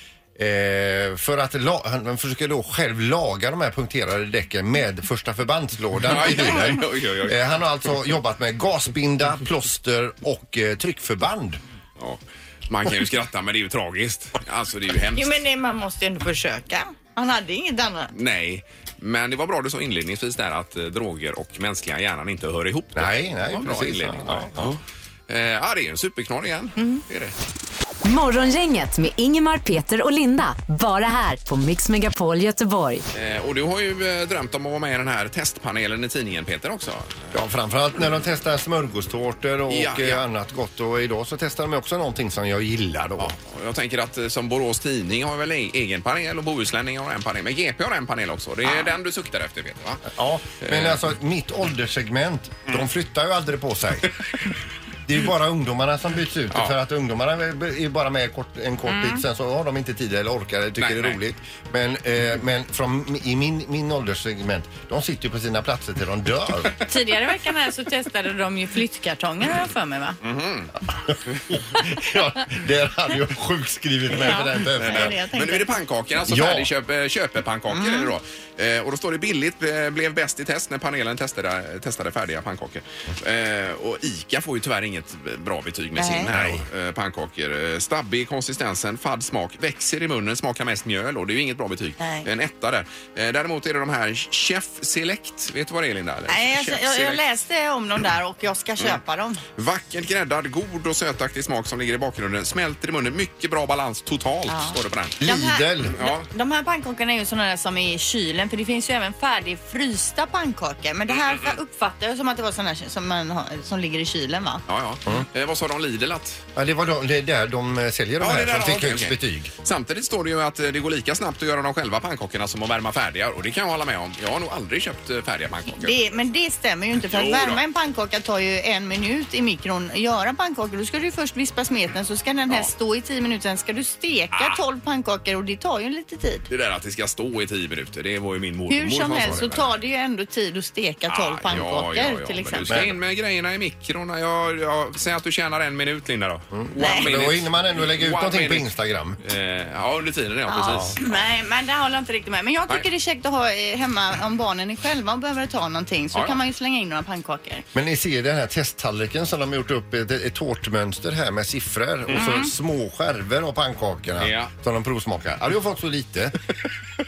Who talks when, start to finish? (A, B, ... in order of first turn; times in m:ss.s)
0:00.4-0:11.6 A
0:06.0-0:07.4 B
0:12.0-0:15.4 B
0:15.1-0:18.1 C
0:18.1-0:27.3 B
0:23.0-0:24.8 A
0:28.0-0:33.0 D
0:33.1-0:37.3 B
0:37.3-0:43.3 A
0:39.7-0:40.2 B
0:43.2-0:50.1 B
0:50.0-0:54.1 A
0:50.6-0:51.0 B
0:55.0-1:06.7 A
0:58.9-0:59.2 C
1:00.8-1:01.2 B
1:06.8-1:10.2 C
1:10.2-1:10.7 B
1:11.1-1:15.1 A
1:14.1-1:15.7 C
1:14.2-1:37.2 B
1:16.3-1:16.7 A
1:17.7-1:18.1 C
1:26.0-1:26.3 C
1:26.3-1:26.6 A
1:32.0-1:32.3 C
1:36.3-1:39.4 C
1:39.6-1:45.2 B
1:44.5-1:54.6 C
1:45.2-1:46.0 A
1:45.9-1:46.3 B
1:51.1-1:51.6 B
1:54.7-1:56.4 B
1:56.6-1:59.5 A
1:58.2-2:06.0 B
2:05.7-2:16.5 C
2:07.0-2:07.6 B
2:14.3-2:14.6 B
2:16.5-2:19.7 B
2:18.7-2:22.8 C
2:21.1-2:28.7 B
2:22.7-2:22.9 A
2:26.5-2:29.2 A
2:26.8-2:27.0 C
2:29.2-2:31.2 B
2:30.5-2:37.6 C
2:30.7-2:30.9 A
2:37.7-2:46.3 A
2:42.1-2:42.5 C
2:44.2-2:44.5 B